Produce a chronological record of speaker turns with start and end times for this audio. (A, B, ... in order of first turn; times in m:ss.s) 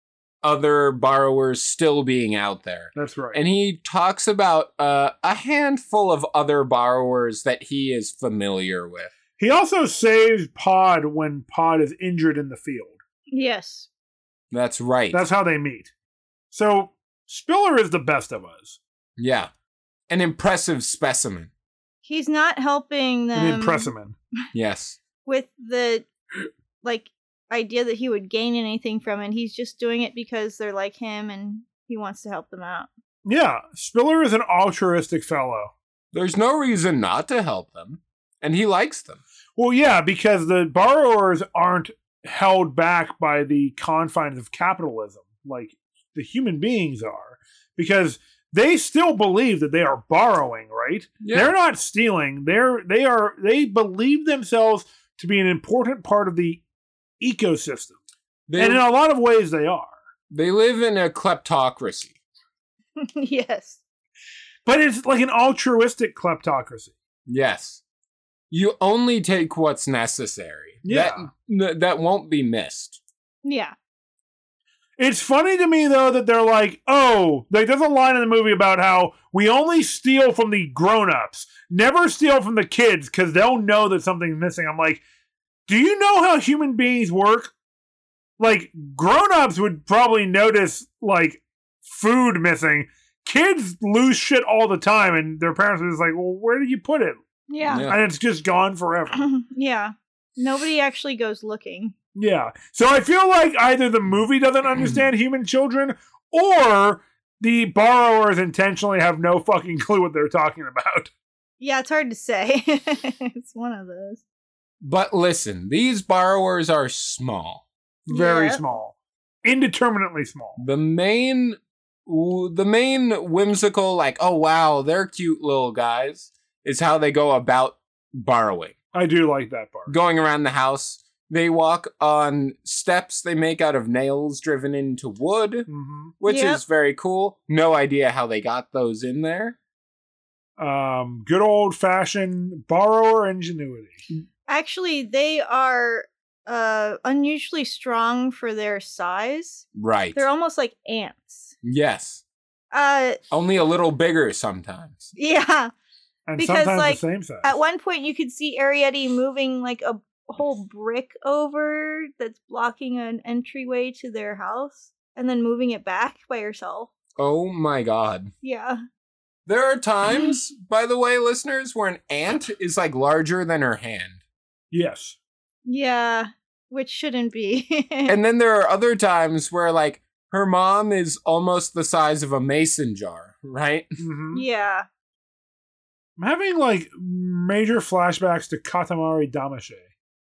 0:00.4-0:09.1 A
0:02.9-0:03.4 B
0:09.4-0:13.0 B
0:13.3-0:13.9 C
0:14.5-0:15.2 A
0:15.1-0:15.9 B
0:16.5-0:18.8 B
0:19.2-0:19.5 A
0:20.1-0:21.5 A
0:22.0-0:23.9 C
0:23.4-0:24.1 B
0:24.5-0:25.0 A
0:25.2-0:26.1 C
0:26.8-0:32.9 C
0:33.2-0:35.7 B
0:36.1-0:39.2 A
0:39.6-0:56.6 B
0:51.2-0:51.5 A
0:57.2-0:58.0 B
0:58.5-0:58.8 A
0:58.6-1:00.0 B
1:00.3-1:02.2 A
1:03.0-1:03.8 C
1:04.6-1:06.9 B
1:07.3-1:07.8 A
1:08.5-1:13.0 A
1:10.8-1:11.3 B
1:13.4-1:13.7 C
1:15.0-1:25.0 B
1:25.7-1:27.5 B
1:28.4-1:37.2 B
1:37.5-1:37.9 C
1:37.6-1:38.0 A
1:37.7-1:39.3 B
1:39.2-1:41.9 C
1:42.1-1:51.1 B
1:51.6-1:54.2 C
1:54.8-1:57.6 A
1:58.1-2:00.6 B
1:58.1-1:58.6 C
2:00.6-2:08.7 A
2:08.9-2:09.9 B
2:09.9-2:15.7 A
2:15.7-2:16.1 B
2:16.2-2:19.6 A
2:16.3-2:16.6 C
2:20.6-2:24.0 B
2:24.5-2:31.5 C
2:29.7-2:30.3 A
2:31.6-2:32.2 A
2:32.7-2:33.2 C
2:33.3-2:35.1 A
2:35.2-2:35.7 C
2:36.3-2:37.5 B
2:36.4-2:46.9 C
2:47.2-2:48.3 A
2:48.4-2:48.8 C
2:49.5-2:54.2 A
2:54.7-2:55.2 B
2:55.6-2:58.2 C
2:58.0-3:03.9 A
3:04.0-3:04.4 B
3:04.3-3:04.8 C
3:06.2-3:09.8 B